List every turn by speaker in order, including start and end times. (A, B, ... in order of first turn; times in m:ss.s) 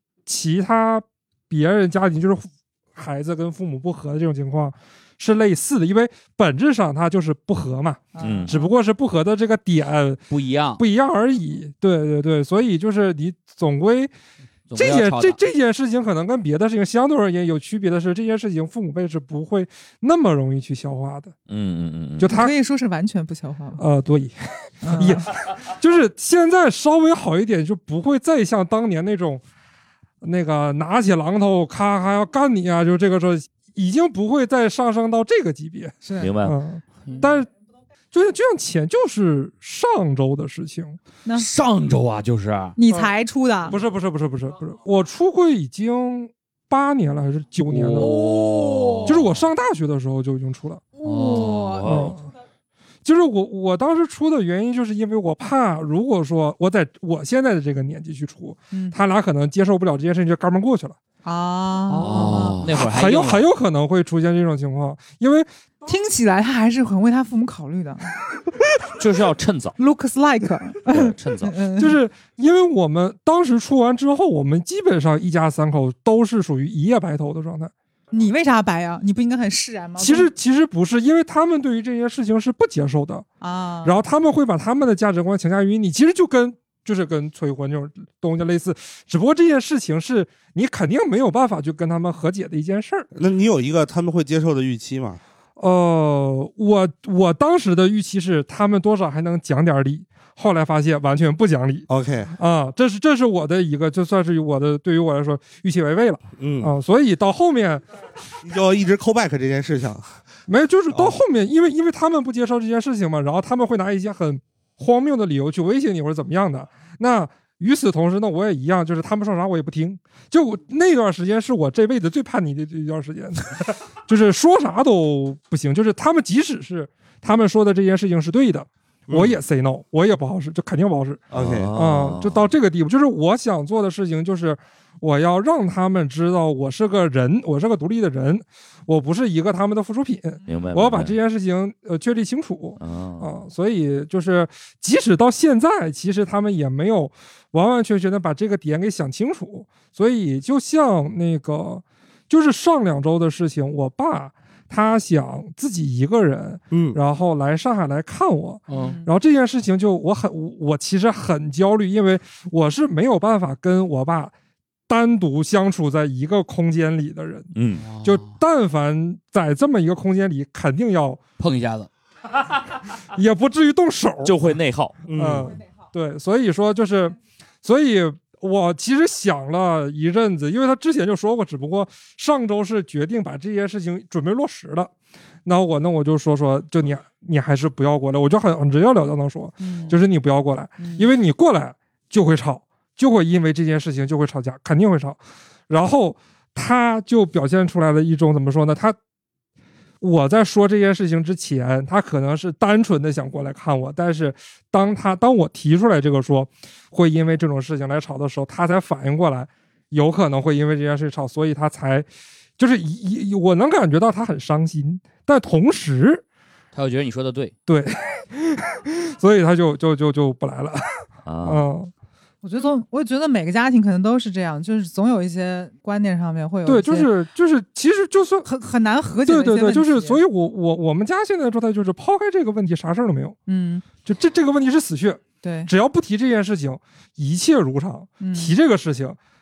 0:00.2-0:10.2 A
0:08.1-0:08.7 B
0:08.2-0:08.5 C
0:10.3-0:10.8 D
0:10.8-0:14.1 A
0:14.7-0:15.4 D
0:14.7-0:21.3 A
0:21.5-0:22.3 C
0:22.2-0:22.5 A
0:22.3-0:23.8 B
0:23.8-0:29.4 A
0:24.8-0:25.2 B
0:30.2-0:37.5 A
0:36.0-0:36.3 B
0:36.2-0:36.6 C
0:37.1-0:37.3 D
0:38.1-0:41.0 A
0:41.3-0:42.8 D
0:42.8-0:43.8 B
0:43.7-0:48.4 A
0:47.6-0:49.4 D
0:48.0-0:49.1 B
0:49.0-0:50.9 A
0:51.0-0:51.9 B
0:51.0-0:51.8 D
0:51.8-0:52.2 C
0:51.8-0:52.3 A
0:53.0-1:01.0 A
0:58.7-0:59.0 B
1:01.2-1:02.7 B
1:01.9-1:03.5 D
1:02.6-1:05.5 A
1:05.8-1:08.1 B
1:09.0-1:09.8 C
1:09.8-1:12.0 B
1:10.9-1:11.6 C
1:11.8-1:17.7 A
1:18.1-1:20.3 B
1:20.0-1:23.2 A
1:23.4-1:24.0 B
1:23.8-1:33.1 A
1:33.1-1:35.2 E
1:35.6-1:47.8 A
1:41.9-1:42.3 E
1:46.4-1:46.7 E
1:48.4-1:50.2 E
1:50.5-2:44.3 A
1:50.9-1:51.2 E
2:09.1-2:09.4 E
2:11.3-2:11.7 E
2:11.3-2:12.5 C
2:20.5-2:21.2 C
2:22.8-2:23.4 C
2:36.7-2:37.0 E
2:38.7-2:39.0 D
2:38.7-2:39.1 B
2:44.9-2:47.5 A
2:47.5-2:47.8 C
2:47.8-2:48.4 D
2:48.0-2:51.2 A
2:51.4-2:51.9 D
2:53.1-2:54.4 A
2:54.2-2:55.0 C
2:55.1-2:55.6 E
2:55.1-3:04.9 A
3:05.4-3:19.0 A
3:09.6-3:10.0 B
3:10.8-3:11.1 B
3:20.0-3:32.1 A
3:32.6-3:36.2 A
3:36.7-3:37.5 D
3:37.7-3:41.9 A
3:41.2-3:41.6 C
3:42.4-3:47.1 B
3:46.6-3:48.5 A
3:48.4-3:50.2 B
3:49.2-3:53.4 A
3:53.5-3:53.8 B
3:54.0-3:59.2 A
3:55.4-3:55.7 B
3:58.2-3:58.6 B